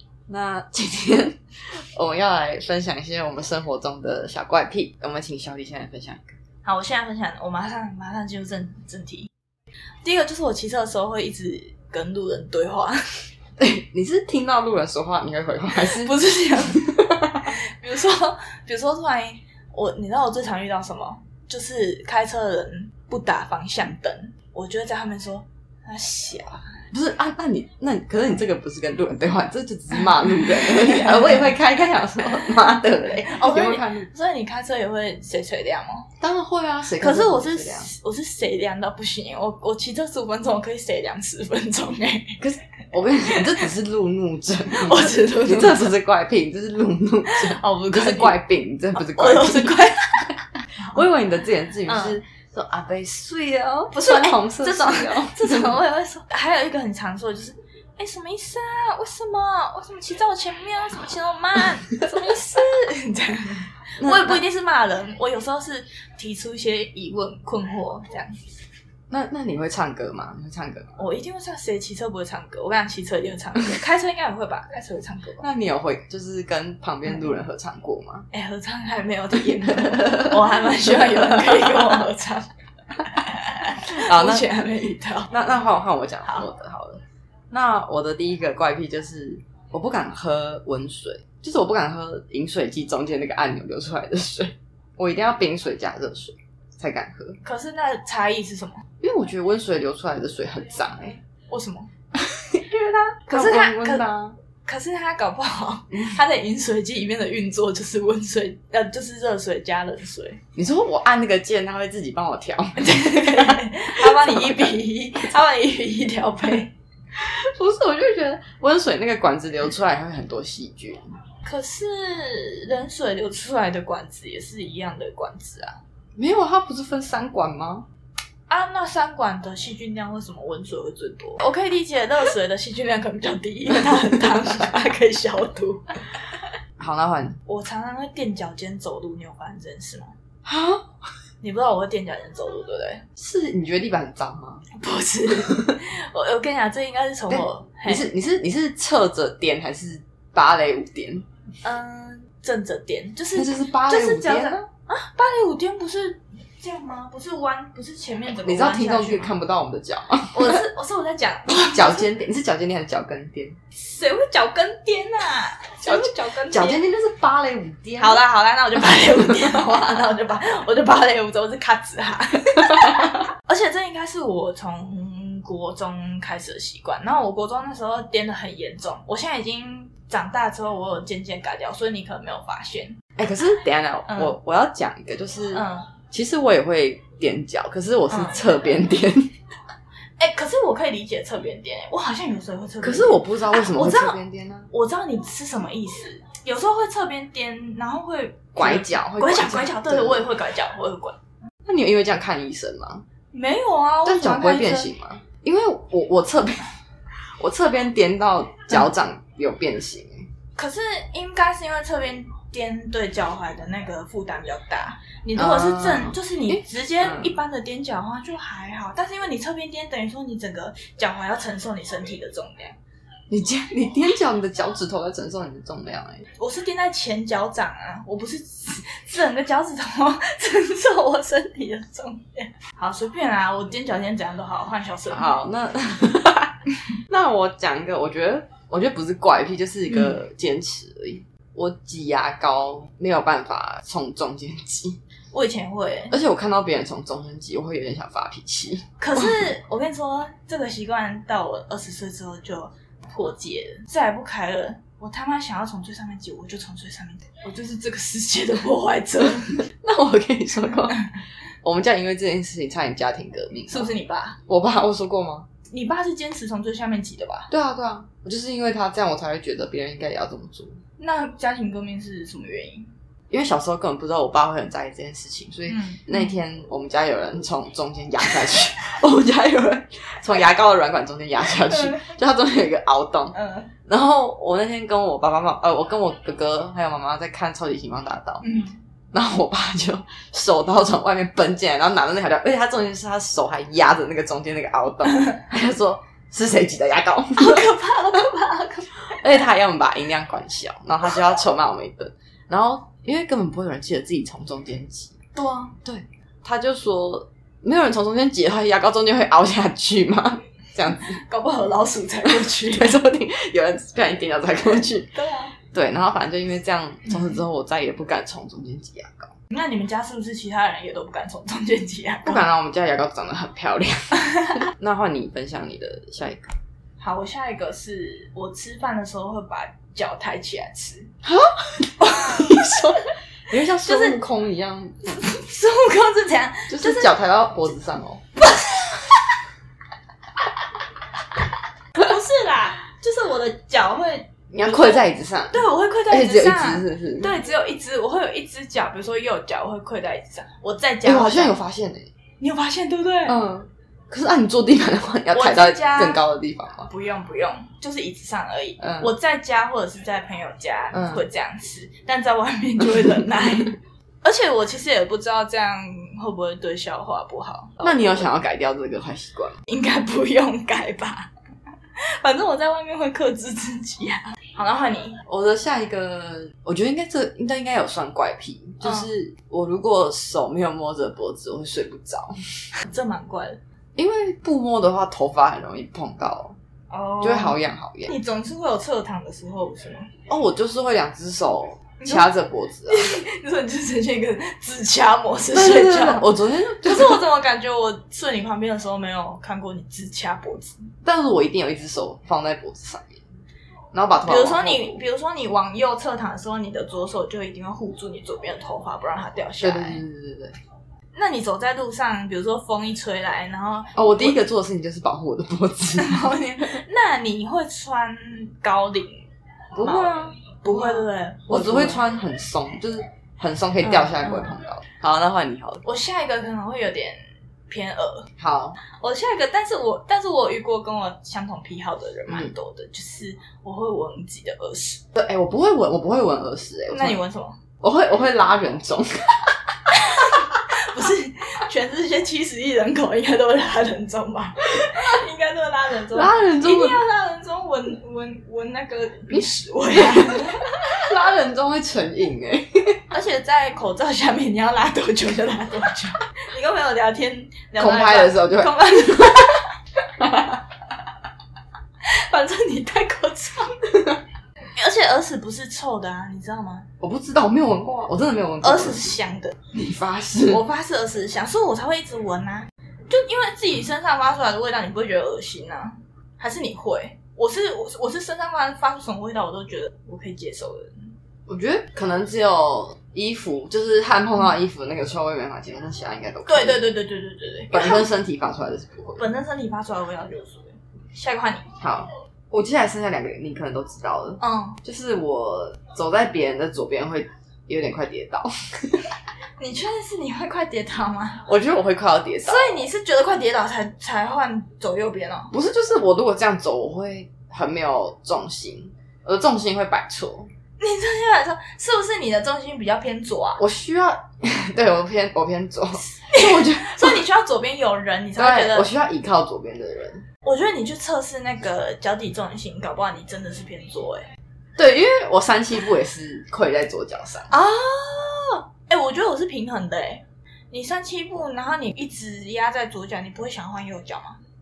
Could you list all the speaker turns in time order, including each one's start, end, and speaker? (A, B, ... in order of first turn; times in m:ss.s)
0:00.3-0:06.3 A
0:06.6-0:09.3 B
0:10.0-0:13.0 B
0:13.6-0:17.5 A
0:15.8-0:26.8 B
0:26.9-0:34.1 A
0:30.5-0:31.5 B
0:33.2-0:36.1 B
0:36.2-0:37.9 A
0:37.0-0:42.4 B
0:42.4-0:50.0 A
0:43.2-0:43.7 B
0:44.7-0:45.9 B
0:47.3-0:48.4 B
0:48.9-0:51.0 B
0:50.8-0:55.8 A
0:51.9-0:52.2 B
0:53.9-1:08.4 B
1:04.0-1:04.4 A
1:09.1-1:11.0 A
1:11.0-1:15.4 B
1:15.4-1:18.3 A
1:18.3-1:22.5 B
1:20.0-1:21.4 A
1:23.0-1:25.3 B
1:23.9-1:24.5 A
1:25.3-1:37.4 A
1:37.4-1:38.8 B
1:39.0-1:41.2 A
1:41.5-1:41.9 B
1:42.3-1:44.4 A
1:43.3-1:44.0 B
1:44.6-1:50.4 B
1:50.5-1:54.7 A
1:52.8-1:56.7 B
1:57.1-2:01.0 A
2:01.4-2:05.8 B
2:06.2-2:07.9 A
2:08.5-2:15.9 B
2:16.8-2:17.4 A
2:17.4-2:20.1 B
2:20.4-2:20.9 A
2:21.4-2:23.0 B
2:23.2-2:24.6 A
2:24.7-2:28.0 B
2:25.3-2:25.8 A
2:27.3-2:31.2 A
2:31.6-2:39.3 B
2:33.3-2:34.6 A
2:38.4-2:40.6 A
2:40.3-2:42.1 B
2:41.5-2:43.6 A
2:43.7-2:46.8 B
2:45.8-2:48.2 A
2:48.0-3:03.0 B
3:03.2-3:09.3 A
3:04.1-3:04.3 B
3:05.5-3:05.9 B
3:08.1-3:08.4 B
3:10.2-3:14.2 B
3:12.8-3:14.7 A
3:14.7-3:21.2 B
3:18.6-3:20.3 A
3:21.6-3:23.0 A
3:23.3-3:24.9 B
3:24.0-3:26.8 A
3:27.4-3:30.3 A
3:30.6-3:42.8 B
3:35.3-3:37.3 A
3:43.3-3:46.2 A
3:46.4-3:55.4 B
3:55.1-4:05.0 A
3:59.9-4:00.2 B
4:05.3-4:06.1 B
4:06.1-4:09.4 A
4:09.0-4:19.6 B
4:19.8-4:21.0 A
4:21.6-4:23.9 A
4:23.7-4:24.4 B
4:24.5-4:25.5 A
4:25.7-4:27.5 B
4:27.5-4:30.8 A
4:31.0-4:32.9 B
4:33.3-4:43.4 A
4:35.7-4:36.3 B
4:43.3-4:43.7 B
4:43.9-4:48.4 A
4:48.4-4:48.8 B
4:49.1-4:57.8 A
4:57.4-4:59.4 B
4:59.0-5:05.2 A
5:05.3-5:05.7 B
5:05.8-5:11.2 A
5:11.1-5:13.0 B
5:12.2-5:15.1 A
5:15.1-5:15.5 B
5:15.7-5:19.3 A
5:19.5-5:22.4 B
5:22.2-5:26.5 A
5:27.0-5:31.1 B
5:31.2-5:35.4 A
5:32.0-5:33.0 B
5:33.7-5:34.2 B
5:35.1-5:37.1 B
5:36.7-5:38.2 A
5:38.4-5:39.2 B
5:42.0-5:51.6 B
5:44.5-5:47.4 A
5:51.0-5:52.1 A
5:52.4-5:53.4 B
5:53.2-5:56.9 A
5:55.3-5:56.2 B
5:56.9-6:08.3 B
5:58.8-5:59.1 A
6:00.9-6:01.2 A
6:07.8-6:09.6 A
6:09.7-6:11.3 B
6:12.0-6:15.2 B
6:15.2-6:22.4 A
6:18.8-6:19.1 B
6:22.8-6:23.6 B
6:24.0-6:26.6 A
6:26.9-6:30.1 B
6:27.2-6:28.1 A
6:30.3-6:33.2 A
6:32.0-6:32.3 B
6:32.9-6:40.8 B
6:35.5-6:37.2 A
6:41.0-6:43.2 A
6:43.9-6:45.0 A
6:44.2-6:50.0 B
6:49.6-6:50.6 A
6:51.1-6:54.4 B
6:54.0-6:56.8 A
6:56.0-6:59.2 B
6:59.7-7:05.8 A
6:59.8-7:02.0 B
7:03.8-7:04.5 B
7:05.8-7:08.3 B
7:08.4-7:08.8 A
7:08.9-7:15.0 B
7:12.3-7:12.5 A
7:15.1-7:17.2 A
7:16.9-7:17.6 B
7:17.8-7:19.5 A
7:19.9-7:30.9 B
7:26.1-7:27.0 A
7:29.3-7:33.0 A
7:33.1-7:39.7 B
7:37.8-7:39.4 A
7:40.2-7:40.5 A
7:42.0-7:43.9 B
7:44.8-7:46.9 B
7:47.0-7:49.2 A
7:48.6-7:49.6 B
7:49.7-7:50.6 A
7:50.5-8:01.1 B
8:01.5-8:06.8 A
8:06.4-8:08.0 B
8:07.7-8:09.3 A
8:09.2-8:11.7 B
8:11.8-8:19.1 A
8:14.4-8:14.8 B
8:19.6-8:21.4 B
8:21.4-8:22.8 A
8:22.4-8:25.5 B
8:25.5-8:30.5 A
8:30.8-8:33.6 B
8:33.6-8:37.2 A
8:36.1-8:38.9 B
8:38.4-8:40.2 A
8:40.4-8:44.3 B
8:44.8-8:47.5 A
8:47.5-8:54.4 B